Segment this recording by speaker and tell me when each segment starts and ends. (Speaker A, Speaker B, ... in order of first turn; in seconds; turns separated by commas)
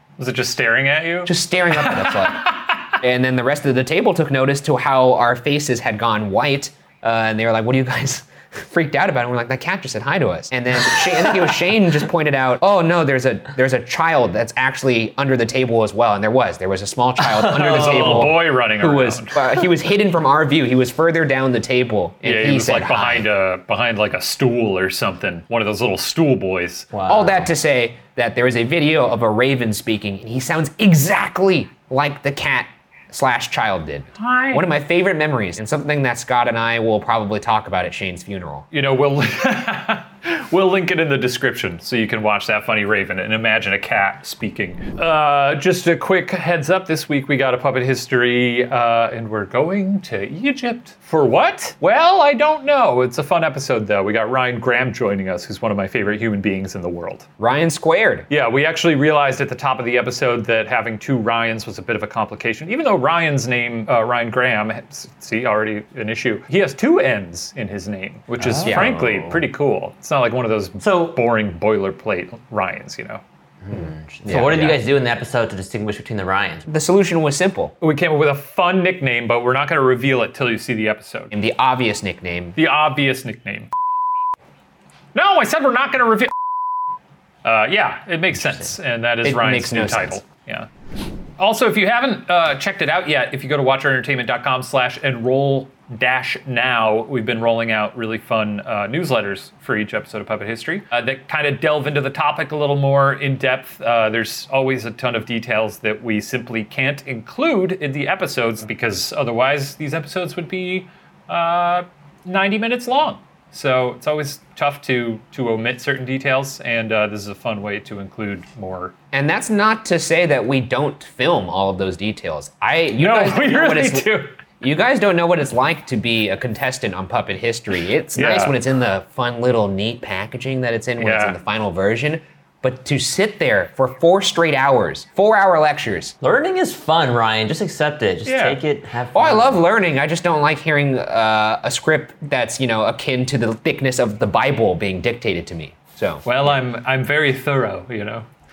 Speaker A: 0.2-2.9, Speaker B: 1.2-23.3, Speaker C: 17.2-18.3, Speaker A: 17.5-19.4, Speaker A: 22.2-26.9, Speaker C: 26.9-27.5, Speaker B: 27.1-38.7, Speaker A: 34.2-34.7, Speaker A: 38.7-57.2, Speaker B: 57.4-58.3, Speaker A: 58.3-73.2, Speaker C: 68.4-69.5, Speaker B: 68.6-68.9, Speaker C: 70.8-71.2, Speaker C: 73.6-76.7, Speaker B: 73.7-74.8, Speaker B: 76.7-77.8, Speaker A: 77.8-81.3, Speaker B: 81.3-82.6, Speaker A: 82.6-83.7, Speaker A: 85.1-86.3, Speaker A: 87.4-90.7, Speaker C: 88.4-88.7, Speaker B: 89.2-90.2, Speaker A: 91.4-118.9, Speaker B: 119.1-136.1, Speaker A: 123.0-124.4, Speaker A: 128.1-128.6, Speaker A: 131.0-131.4, Speaker C: 136.2-139.6, Speaker A: 138.2-138.6, Speaker B: 139.1-146.5, Speaker A: 146.2-148.2